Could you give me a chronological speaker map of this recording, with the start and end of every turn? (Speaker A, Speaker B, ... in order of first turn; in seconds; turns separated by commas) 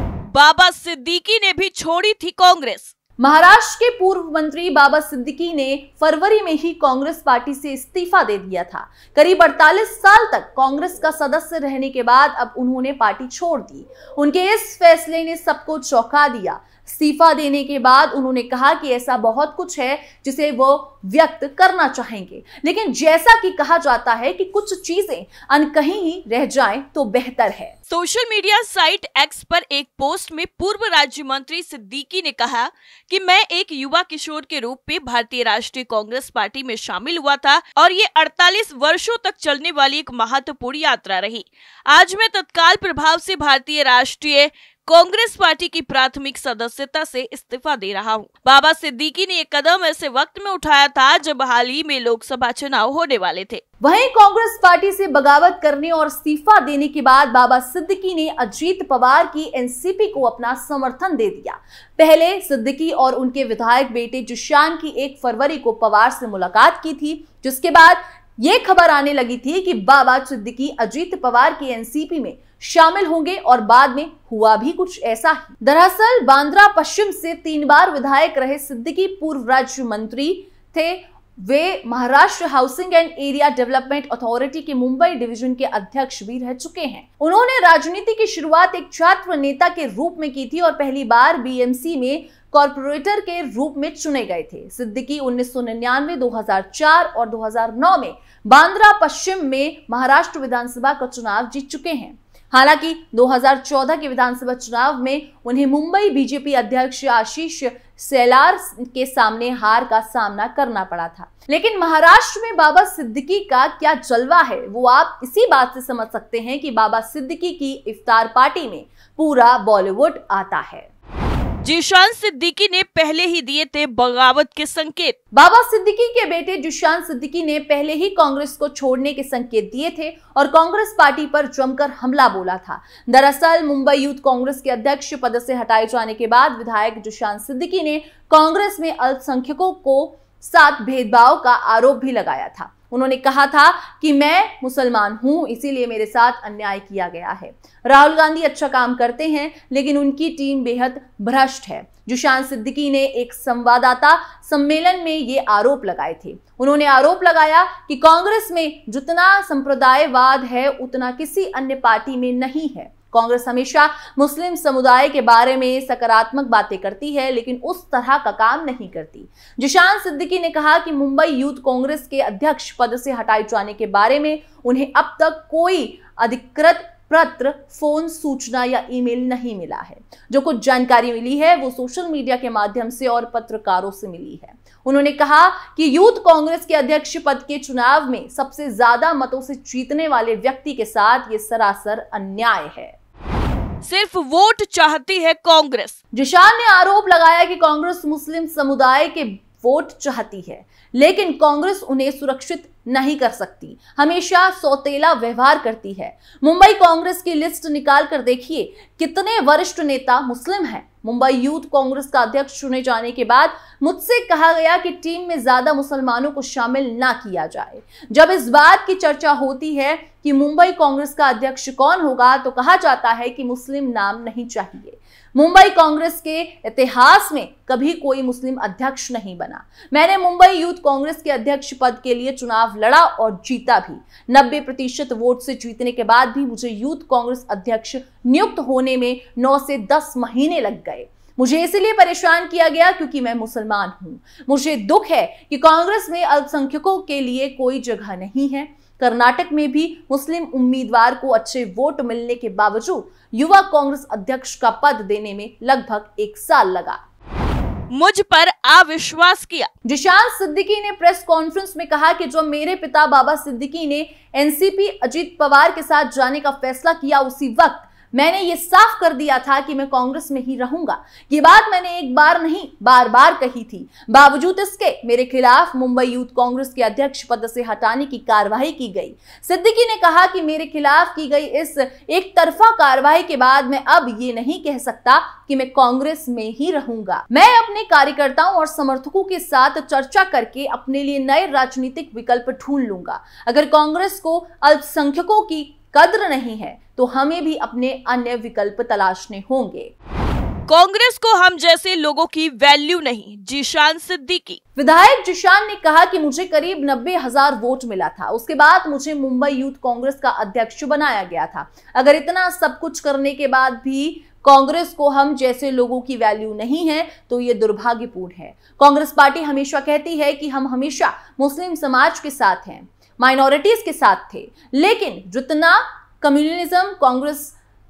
Speaker A: 0.3-2.9, Speaker B: 3.2-27.8, Speaker A: 27.9-53.6, Speaker B: 53.8-120.9, Speaker A: 121.6-125.2, Speaker B: 125.3-192.9, Speaker A: 193.8-196.0, Speaker B: 196.1-257.0, Speaker A: 257.9-259.7, Speaker B: 259.9-299.9, Speaker A: 300.7-304.6, Speaker B: 304.8-327.6